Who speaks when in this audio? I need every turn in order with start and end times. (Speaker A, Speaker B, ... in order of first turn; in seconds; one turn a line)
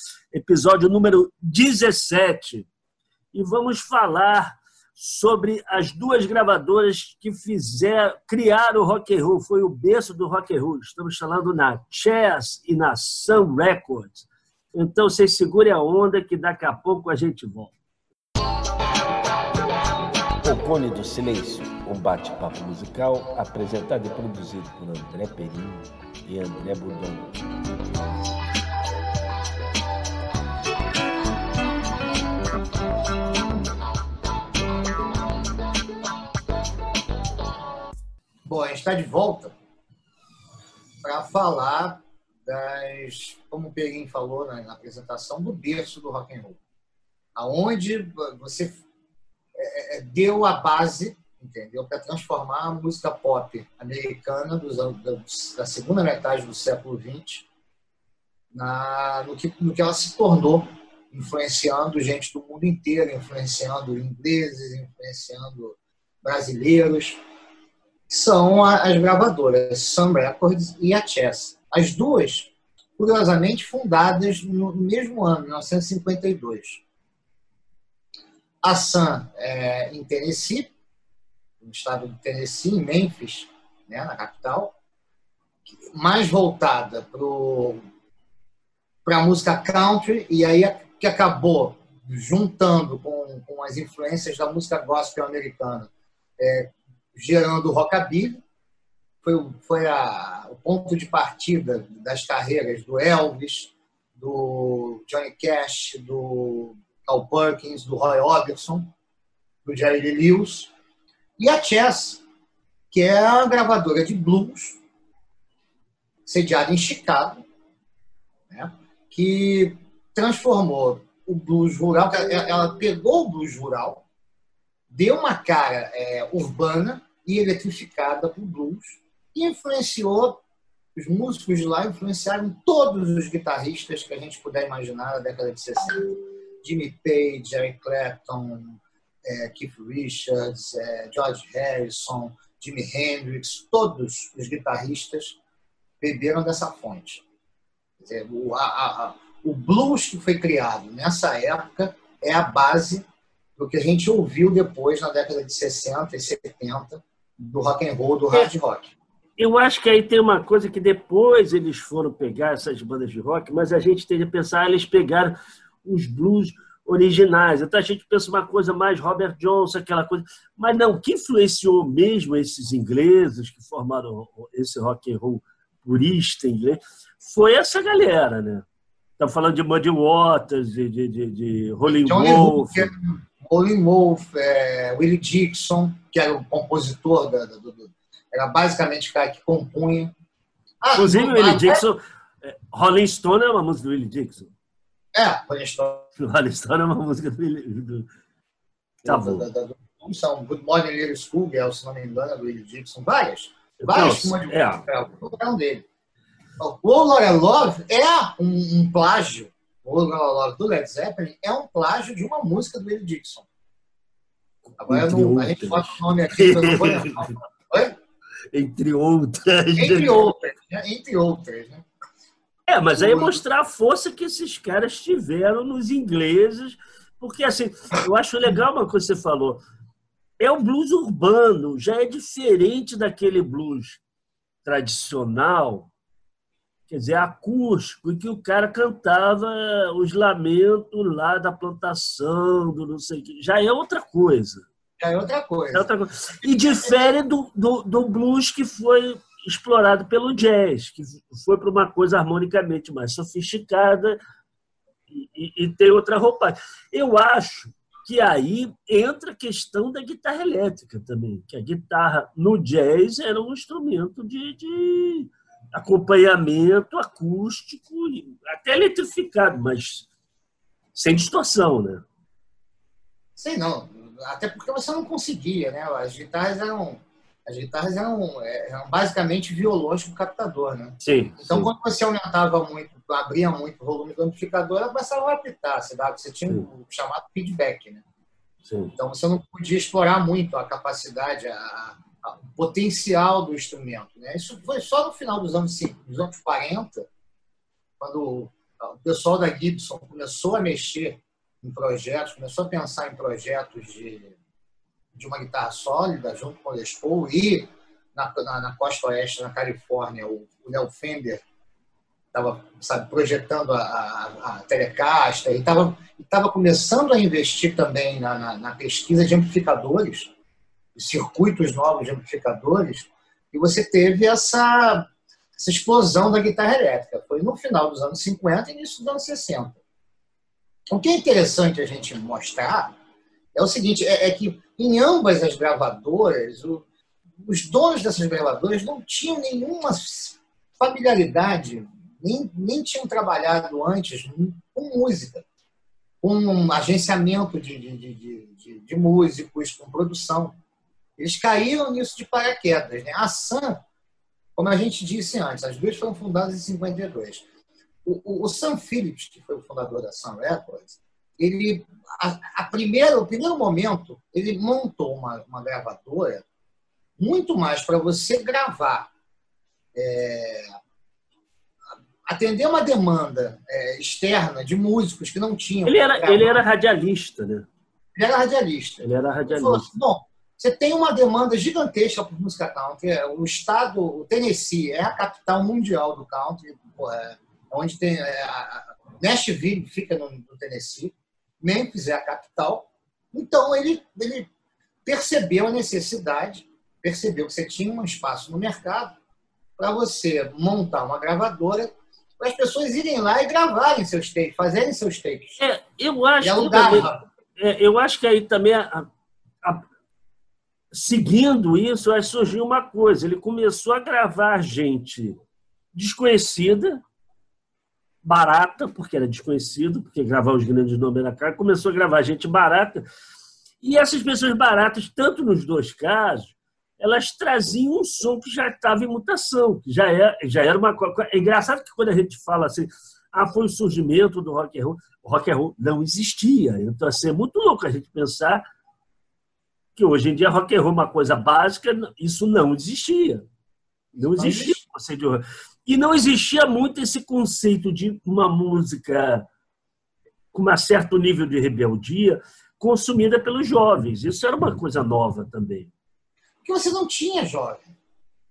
Speaker A: 0.3-2.7
Speaker A: 3.3-17.7
Speaker B: 20.4-27.4
Speaker C: 38.5-39.5
Speaker C: 41.0-46.6
Speaker C: 47.3-48.8
Speaker C: 49.5-57.5
Speaker C: 58.5-67.2
Speaker C: 68.1-76.8
Speaker C: 78.6-80.7
Speaker C: 81.6-84.7
Speaker C: 85.9-87.8
Speaker C: 89.0-98.4
Speaker C: 99.2-108.9
Speaker C: 109.6-110.7
Speaker C: 111.4-112.2
Speaker C: 112.9-114.8
Speaker C: 116.2-117.4
Speaker C: 118.5-124.0
Speaker C: 124.9-130.4
Speaker C: 130.9-136.1
Speaker C: 136.6-145.4
Speaker C: 146.0-147.2
Speaker C: 148.0-153.1
Speaker C: 153.6-158.9
Speaker A: 159.4-178.6
Speaker A: 179.2-182.9
Speaker C: 181.8-190.1
Speaker C: 190.8-191.8
Speaker A: 190.9-194.5
Speaker C: 195.1-196.1
Speaker A: 196.2-198.1
Speaker C: 199.0-205.8
Speaker A: 199.0-199.4
Speaker A: 203.8-204.8
Speaker C: 206.6-213.5
Speaker C: 214.8-217.9
Speaker A: 214.9-217.3
Speaker A: 218.5-220.3
Speaker C: 219.7-221.8
Speaker A: 222.7-229.6
Speaker C: 222.9-223.4
Speaker A: 230.4-234.0
Speaker A: 234.6-235.9
Speaker A: 236.9-244.7
Speaker C: 245.0-245.9
Speaker A: 245.7-254.2
Speaker C: 246.4-247.1
Speaker A: 255.1-270.1
Speaker A: 270.9-272.0
Speaker C: 273.4-288.0
Speaker A: 281.0-281.7
Speaker A: 288.7-288.9
Speaker C: 289.0-297.1
Speaker C: 298.0-304.3
Speaker C: 305.1-311.4
Speaker C: 312.3-320.3
Speaker C: 320.9-329.8
Speaker C: 330.9-332.9
Speaker C: 333.5-336.8
Speaker C: 337.4-345.4
Speaker C: 346.2-350.5
Speaker C: 351.2-353.8
Speaker C: 354.6-357.4
Speaker C: 358.0-366.4
Speaker C: 367.2-369.1
Speaker C: 369.9-370.7
Speaker C: 372.2-376.6
Speaker A: 375.9-377.7
Speaker C: 378.1-394.5
Speaker A: 379.0-379.9
Speaker C: 395.0-399.1
Speaker C: 399.8-405.6
Speaker A: 405.6-409.1
Speaker C: 406.4-407.2
Speaker A: 410.9-415.4
Speaker A: 415.9-417.0
Speaker A: 418.2-423.0
Speaker A: 423.8-438.6
Speaker A: 439.9-443.4
Speaker A: 444.1-449.4
Speaker C: 444.4-444.8
Speaker A: 450.5-455.9
Speaker C: 456.6-457.9